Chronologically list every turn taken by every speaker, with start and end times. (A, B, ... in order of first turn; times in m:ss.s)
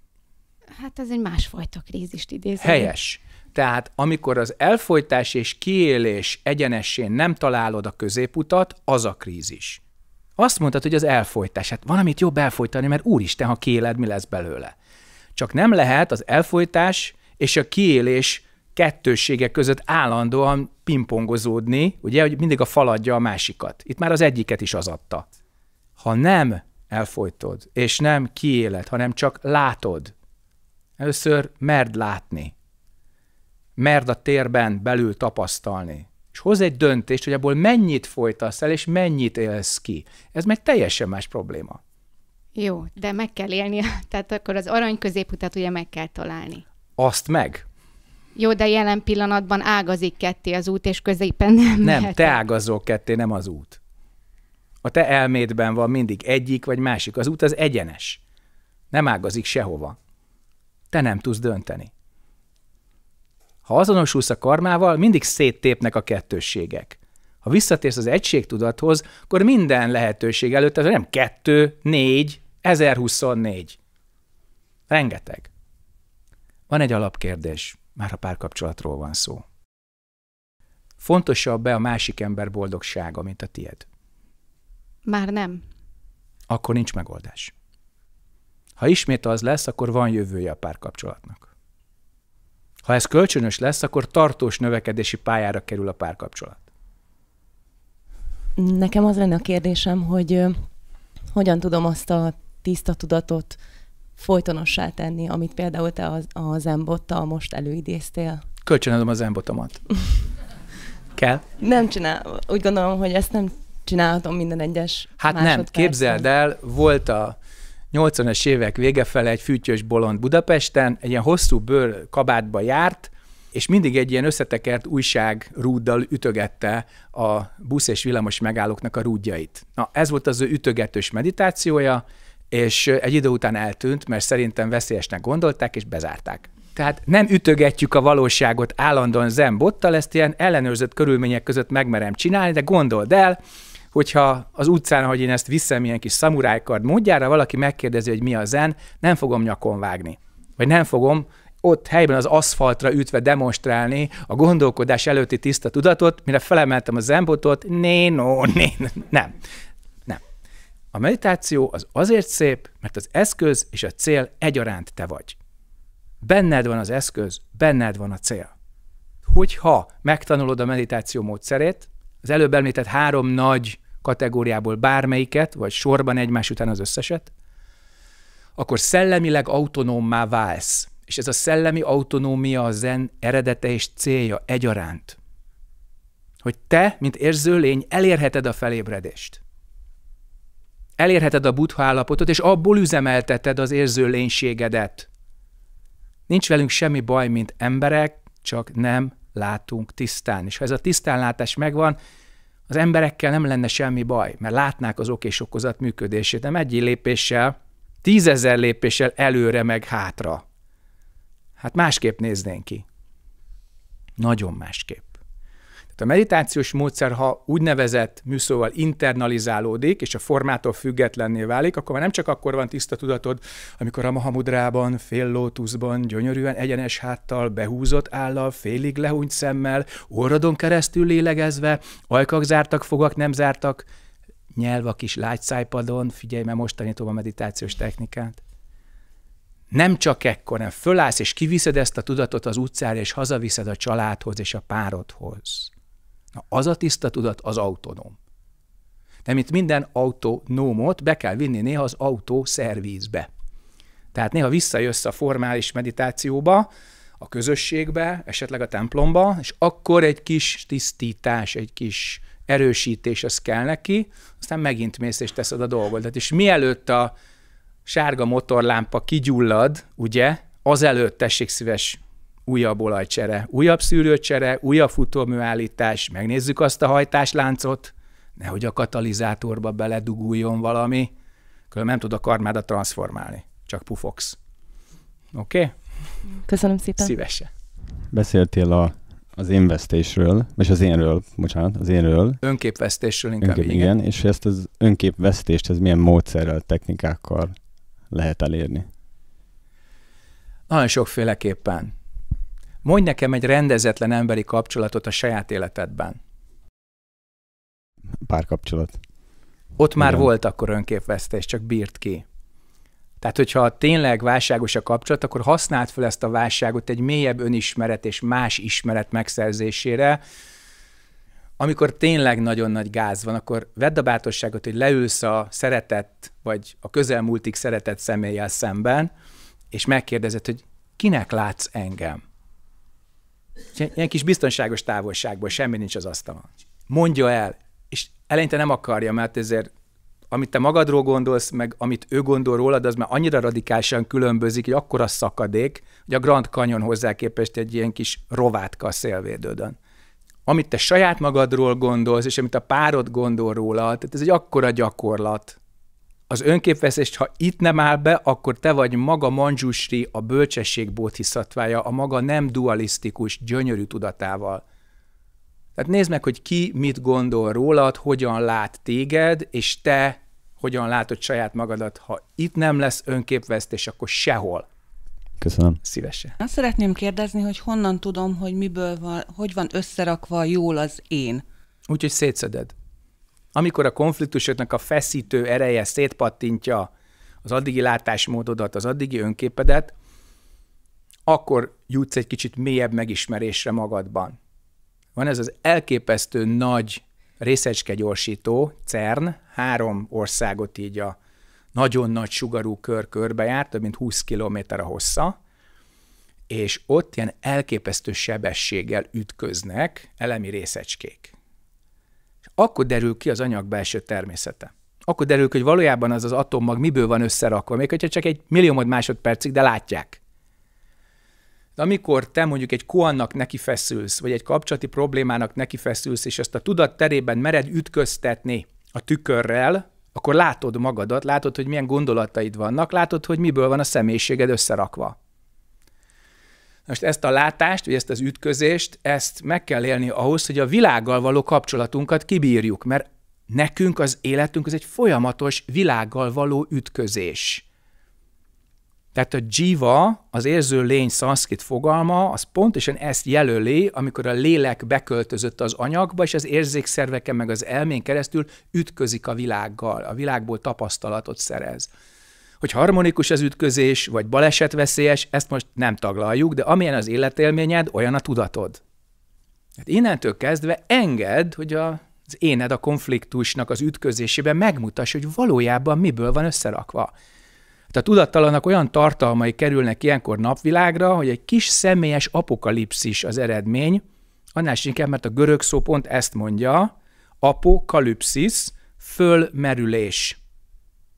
0:00.8-0:02.9 A
0:02.6-0:09.8 B
0:10.4-0:14.7 B
0:15.4-0:25.3 B
0:26.0-0:30.1 B
0:31.0-0:32.5 B
0:33.8-0:41.8 B
0:42.6-0:46.6 A
0:47.0-0:47.6 B
0:48.4-0:52.4 A
0:51.8-0:53.8 B
0:54.8-0:58.2 B
0:58.9-1:00.0 B
1:00.9-1:01.9 B
1:03.6-1:13.8 B
1:14.9-1:15.5 B
1:16.7-1:19.4 B
1:21.0-1:23.9 B
1:25.1-1:25.6 A
1:26.5-1:27.5 B
1:28.8-1:31.5 B
1:32.8-1:36.6 B
1:38.6-1:43.6 C
1:44.1-1:48.4 C
1:48.6-1:50.1 B
1:51.2-1:51.4 B
1:51.6-1:56.2 C
1:55.2-1:57.4 B
1:57.9-2:23.4 B
2:23.9-2:39.4 B
2:40.9-2:45.4 B
2:46.2-2:48.5 B
2:49.2-2:57.3 B
2:58.6-3:05.2 B
3:06.4-3:09.4 B
3:11.0-3:15.1 B
3:16.3-3:22.0 B
3:22.7-3:30.4 B
3:31.6-3:32.8 B
3:34.2-3:35.1 B
3:36.0-3:53.8 B
3:54.6-3:58.4 B
3:59.7-4:05.7 B
4:06.3-4:08.2 B
4:09.2-4:13.3 B
4:14.1-4:27.1 B
4:27.9-4:41.1 B
4:41.7-4:44.4 B
4:45.3-4:46.2 B
4:46.4-4:47.1 C
4:47.0-4:47.5 B
4:48.1-4:52.4 D
4:52.4-4:53.9 B
4:53.4-4:58.9 D
5:00.7-5:01.9 B
5:02.8-5:06.2 B
5:08.2-5:09.0 D
5:09.8-5:12.2 B
5:10.0-5:10.3 D
5:13.2-5:20.2 B
5:21.6-5:29.1 B
5:29.7-5:32.2 B
5:33.8-5:39.7 B
5:40.3-5:49.8 B
5:50.5-5:55.6 B
5:56.3-6:04.6 B
6:05.8-6:14.7 B
6:15.4-6:15.8 D
6:15.8-6:16.4 B
6:16.4-6:21.4 E
6:21.9-6:22.7 B
6:23.6-6:26.9 B
6:27.4-6:29.9 B
6:31.3-6:34.4 B
6:35.2-6:41.2 B
6:41.8-6:45.4 B
6:46.5-6:51.3 B
6:52.6-7:00.2 B
7:01.8-7:15.2 B
7:16.9-7:27.6 B
7:29.1-7:41.9 B
7:42.6-7:48.8 B
7:49.8-7:57.1 B
7:57.9-8:04.0 B
8:04.6-8:10.4 B